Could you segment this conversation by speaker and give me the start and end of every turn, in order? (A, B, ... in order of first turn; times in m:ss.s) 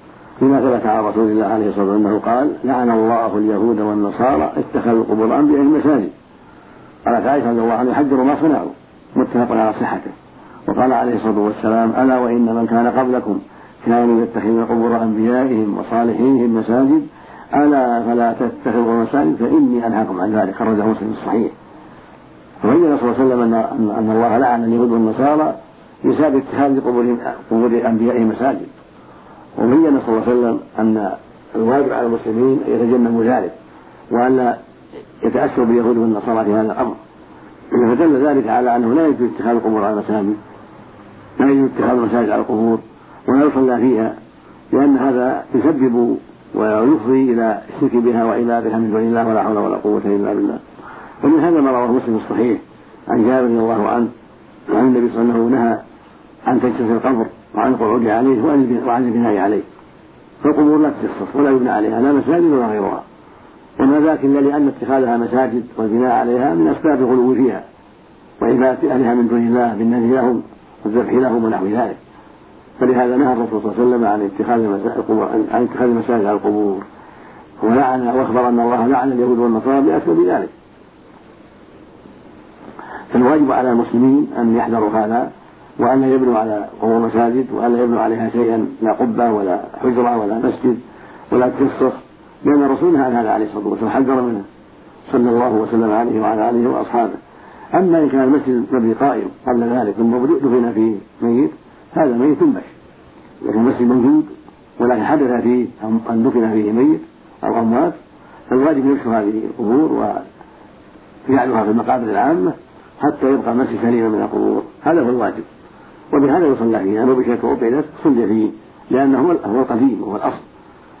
0:00.4-0:06.1 A
0:07.0-0:10.1 A
0:10.7-0:21.5 A
0:22.6-0:28.7 A
0:29.6-0:33.5 A
0:34.1-0:34.6 A
0:35.2-0:37.0 A
0:37.7-0:40.4 A
0:41.4-0:44.1 A
0:44.7-0:50.6 A
0:51.2-0:54.1 A
0:54.7-0:55.8 A
0:56.5-0:59.6 A
1:00.4-1:03.0 A
1:03.8-1:07.6 A
1:08.4-1:12.0 A
1:12.8-1:16.8 A
1:17.6-1:20.5 A
1:23.1-1:34.5 A
1:35.1-1:37.2 A
1:37.7-1:42.7 A
1:43.4-1:48.0 A
1:48.5-1:50.2 A
1:51.3-1:55.5 A
1:56.1-2:00.4 A